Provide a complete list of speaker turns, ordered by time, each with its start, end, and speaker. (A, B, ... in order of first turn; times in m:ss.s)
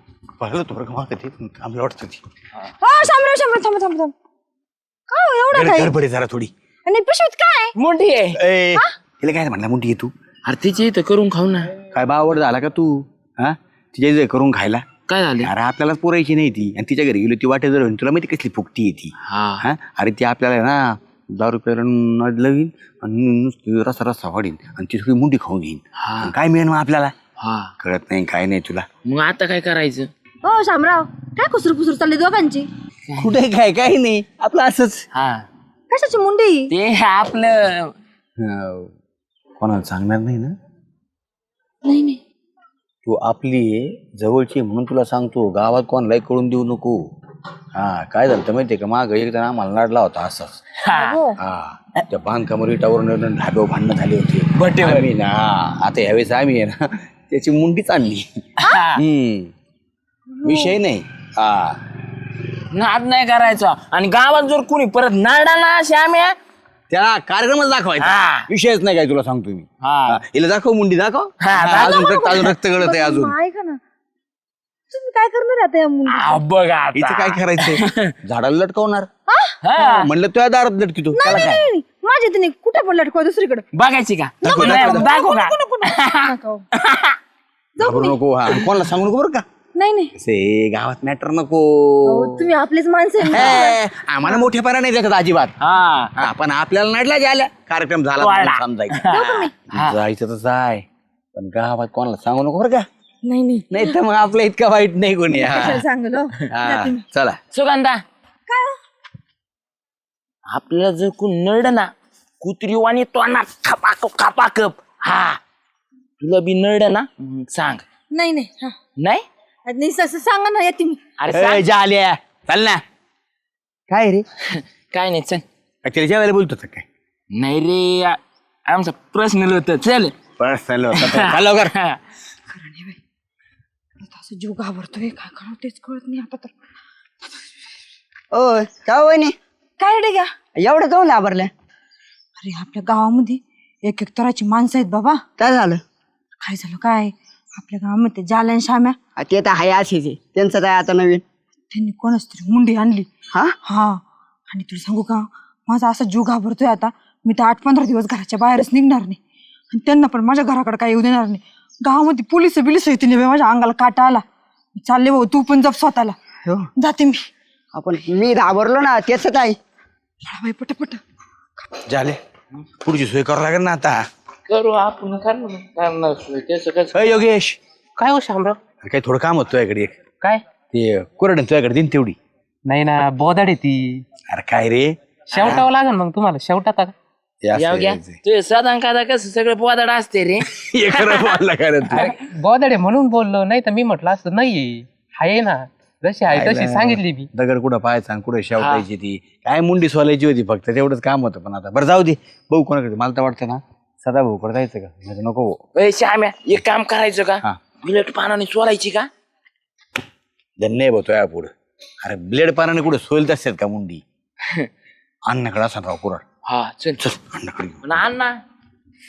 0:00.4-0:02.2 A
0:02.9-0:04.1 B
0:05.1-0:05.6 B
0:05.5-0:06.5 A
0:06.9-0:07.7 B
0:07.8-0:08.4 C
0:08.4-0:10.1 A
0:10.5-0:11.7 C
0:11.9-0:14.8 A
0:15.1-0:15.5 C
0:15.4-0:27.1 A
0:19.2-0:19.6 C
0:26.0-0:26.3 C
0:27.4-0:27.7 C
0:27.8-0:28.8 A
0:29.0-0:30.1 C
0:30.4-0:32.7 B
0:33.2-0:35.0 A
0:35.1-0:35.4 C
0:35.9-0:36.7 B
0:36.7-0:37.9 C
0:38.4-0:38.9 A
0:39.6-0:40.5 A
0:41.8-0:42.2 B
0:43.0-0:46.9 A
0:47.8-0:50.6 A
0:50.8-0:51.2 C
0:50.9-0:51.3 B
0:51.4-0:58.2 A
0:54.6-0:55.1 C
0:58.7-0:59.0 C
0:59.0-0:59.5 A
1:00.4-1:01.8 A
1:02.7-1:06.3 C
1:06.9-1:13.3 A
1:08.0-1:08.4 C
1:09.8-1:10.2 C
1:11.4-1:12.5 C
1:12.9-1:13.8 B
1:14.9-1:16.2 B
1:16.1-1:18.1 C
1:16.9-1:19.1 A
1:19.6-1:20.1 C
1:19.9-1:21.6 A
1:21.5-1:23.6 B
1:23.7-1:27.1 C
1:24.4-1:25.1 A
1:24.9-1:26.6 B
1:27.8-1:29.4 A
1:29.8-1:30.1 B
1:30.1-1:32.5 A
1:32.3-1:33.4 B
1:33.3-1:35.5 A
1:33.4-1:33.6 C
1:35.6-1:36.1 C
1:36.2-1:42.8 A
1:38.2-1:40.0 C
1:43.2-1:43.6 B
1:43.7-1:45.8 A
1:45.7-1:46.3 B
1:46.5-1:47.4 A
1:47.5-1:48.0 C
1:50.5-1:55.4 C
1:56.2-1:57.8 C
1:58.1-1:58.7 B
1:59.0-1:59.2 C
1:59.6-2:01.0 B
2:01.2-2:01.6 C
2:01.3-2:02.8 A
2:03.9-2:04.2 A
2:04.5-2:05.4 C
2:05.8-2:06.8 A
2:07.3-2:10.1 C
2:10.4-2:11.7 A
2:11.0-2:12.0 C
2:12.6-2:13.0 B
2:14.1-2:16.5 B
2:18.3-2:19.4 D
2:19.8-2:20.3 B
2:20.6-2:21.5 D
2:22.4-2:25.2 B
2:25.4-2:25.8 D
2:26.4-2:29.0 B
2:29.2-2:31.2 D
2:31.7-2:33.1 B
2:34.5-2:39.2 B
2:39.7-2:44.2 B
2:44.8-2:46.1 B
2:46.9-2:47.2 B
2:47.7-2:49.6 D
2:50.3-2:51.0 B
2:51.9-2:52.2 A
2:52.8-2:54.0 A
2:54.5-2:57.1 C
2:56.9-2:57.6 A
2:58.0-2:58.6 E
2:58.8-3:00.0 A
3:00.7-3:02.2 A
3:02.7-3:04.0 E
3:04.3-3:05.6 A
3:05.3-3:06.9 E
3:05.3-3:05.6 C
3:07.4-3:08.2 A
3:07.5-3:11.4 C
3:10.6-3:12.1 A
3:12.0-3:17.2 E
3:16.3-3:25.6 A
3:18.6-3:18.8 C
3:25.8-3:29.1 C
3:30.6-3:34.0 A
3:35.3-3:36.2 A
3:36.5-3:37.0 C
3:37.0-3:37.8 A
3:37.8-3:38.4 C